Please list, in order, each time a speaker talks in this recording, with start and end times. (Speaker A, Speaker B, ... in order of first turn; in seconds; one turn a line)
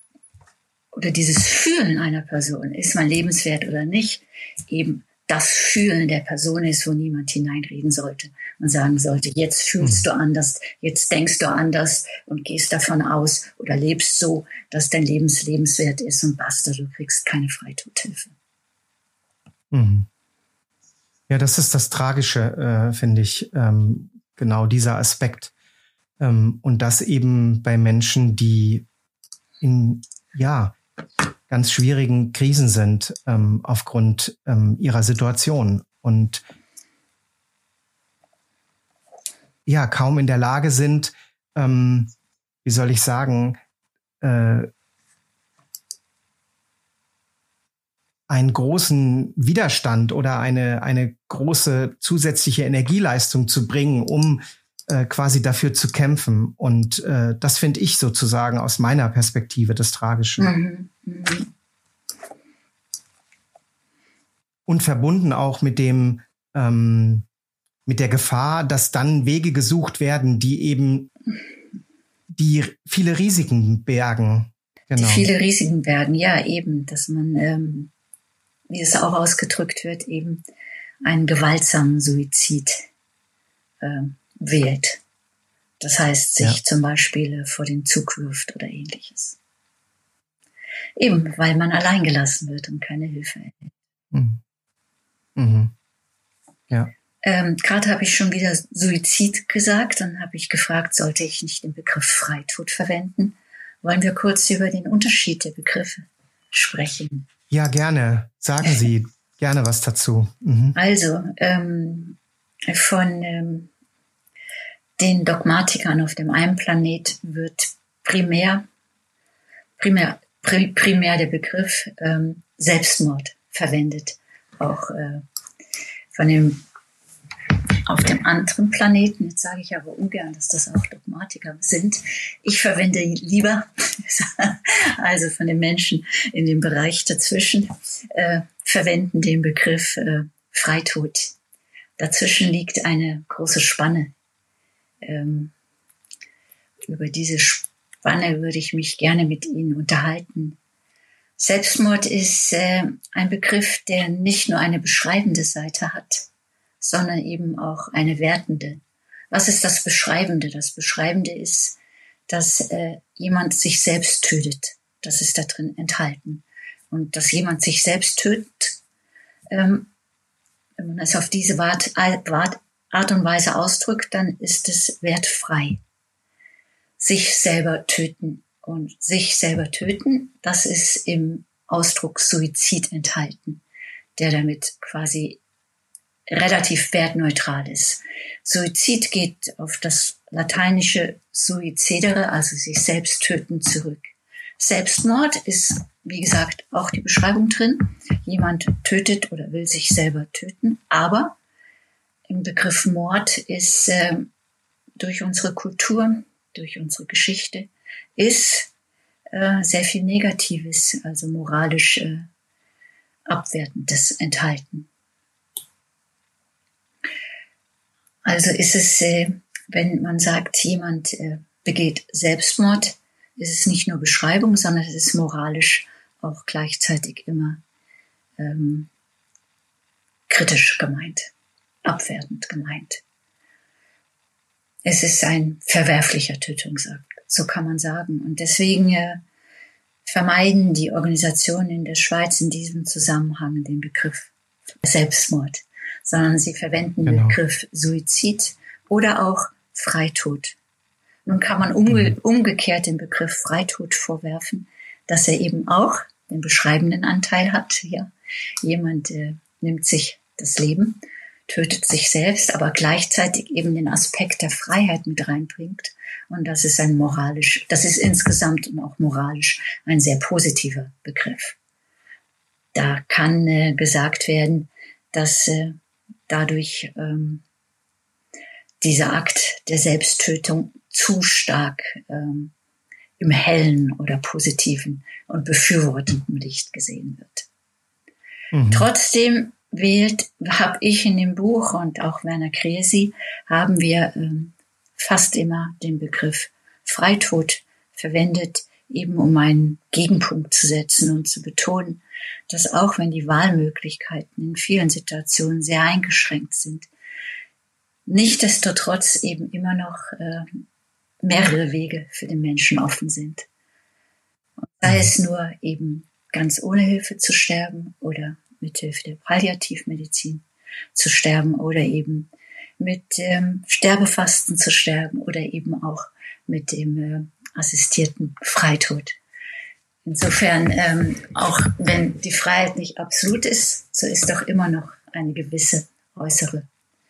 Speaker A: 0.9-18.3
Speaker B: 19.7-20.1
Speaker B: 21.3-25.5
Speaker B: 26.2-28.9
Speaker B: 29.6-30.8
Speaker B: 31.5-36.4
Speaker B: 39.6-42.1
Speaker B: 42.6-43.6
Speaker B: 44.2-44.7
Speaker B: 48.3-60.5
Speaker A: 60.4-61.5
Speaker B: 64.7-67.2
Speaker B: 67.8-71.1
Speaker B: 72.3-75.3
Speaker A: 74.9-77.9
Speaker A: 78.7-80.4
Speaker A: 81.0-82.8
Speaker A: 83.8-85.0
Speaker A: 85.8-89.4
Speaker A: 91.0-93.7
Speaker B: 94.1-94.4
Speaker B: 95.3-95.7
Speaker A: 97.2-107.3
Speaker B: 107.5-110.8
Speaker A: 110.7-112.2
Speaker A: 112.7-113.7
Speaker A: 115.0-118.7
Speaker A: 119.8-125.2
Speaker A: 126.1-126.6
Speaker A: 127.8-141.3
Speaker A: 142.0-144.1
Speaker A: 145.0-145.5
Speaker A: 146.9-150.6
Speaker A: 151.4-156.3
Speaker A: 156.8-161.8
Speaker A: 162.3-168.8
Speaker A: 169.5-169.9
Speaker A: 170.8-175.8
Speaker A: 177.0-183.6
Speaker A: 184.2-185.4
Speaker A: 186.3-194.0
Speaker A: 194.6-201.3
Speaker A: 202.3-204.3
Speaker A: 205.0-208.7
Speaker A: 209.3-212.3
Speaker A: 213.3-214.9
Speaker A: 218.2-227.6
Speaker A: 228.4-228.9
Speaker A: 230.3-231.3
Speaker A: 231.8-233.0
Speaker A: 234.8-239.2
Speaker A: 240.0-244.3
Speaker A: 244.8-250.6
Speaker B: 247.0-247.4
Speaker A: 251.2-258.1
Speaker A: 258.6-271.6
Speaker A: 272.7-275.8
Speaker A: 276.3-277.4
Speaker A: 278.8-282.5
Speaker A: 283.2-287.5
Speaker B: 288.5-288.9
Speaker A: 288.7-306.9
Speaker A: 308.1-310.6
Speaker A: 311.2-313.4
Speaker A: 314.6-329.2
Speaker A: 330.0-336.6